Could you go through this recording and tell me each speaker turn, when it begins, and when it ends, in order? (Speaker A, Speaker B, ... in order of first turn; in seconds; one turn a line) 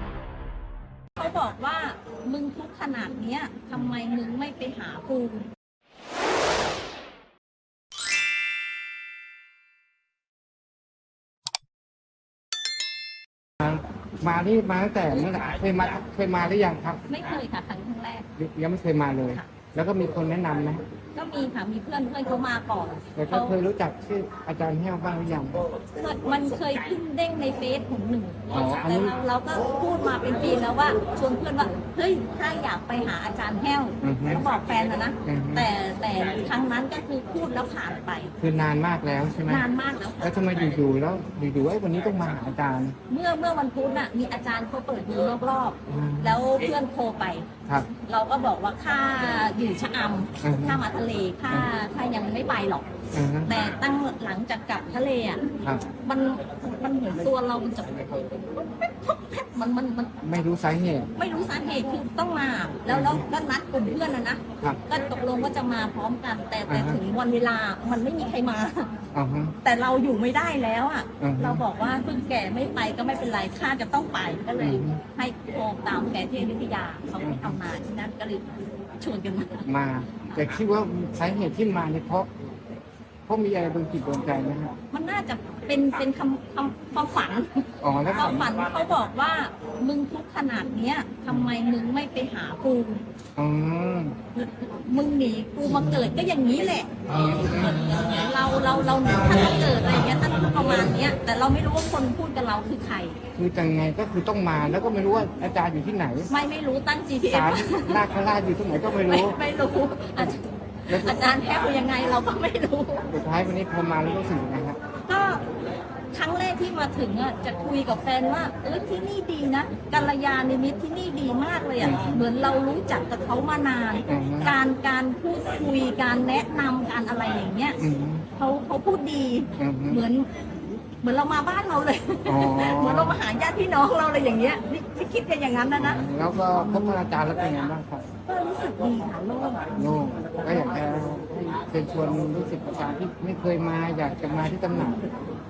Speaker A: 1.1-5.5
Speaker B: 13.6-17.0
Speaker A: 17.1-18.3
Speaker B: 18.4-20.8
Speaker A: 21.1-23.6
Speaker B: 23.1-25.6
Speaker A: 25.9-38.3
Speaker B: 28.5-29.1
Speaker B: 34.0-34.4
Speaker B: 35.2-35.7
Speaker B: 38.4-39.6
Speaker A: 39.5-40.3
Speaker B: 40.2-43.0
Speaker A: 43.1-52.9
Speaker B: 45.9-46.4
Speaker B: 50.4-50.8
Speaker B: 53.1-53.5
Speaker A: 53.5-55.4
Speaker B: 55.6-55.9
Speaker A: 56.0-60.1
Speaker B: 60.2-61.1
Speaker A: 61.2-68.9
Speaker B: 62.9-63.2
Speaker B: 66.7-67.0
Speaker B: 69.1-69.5
Speaker A: 69.6-79.7
Speaker B: 71.2-71.6
Speaker B: 74.6-75.0
Speaker B: 77.2-77.6
Speaker B: 79.7-82.3
Speaker B: 83.3-84.7
Speaker A: 84.9-93.0
Speaker B: 87.8-88.5
Speaker B: 91.3-91.5
Speaker B: 93.4-94.1
Speaker A: 94.3-103.2
Speaker B: 97.1-97.8
Speaker B: 103.3-106.3
Speaker A: 106.3-108.0
Speaker B: 107.3-109.4
Speaker A: 108.9-113.0
Speaker B: 110.9-111.5
Speaker B: 113.0-114.8
Speaker A: 115.1-115.4
Speaker A: 116.1-127.8
Speaker B: 121.8-122.3
Speaker B: 124.1-124.5
Speaker B: 127.8-128.2
Speaker A: 128.3-130.3
Speaker B: 129.6-130.0
Speaker A: 131.0-137.0
Speaker B: 132.3-133.2
Speaker B: 135.8-138.0
Speaker A: 138.3-139.9
Speaker B: 139.7-145.0
Speaker A: 140.5-140.8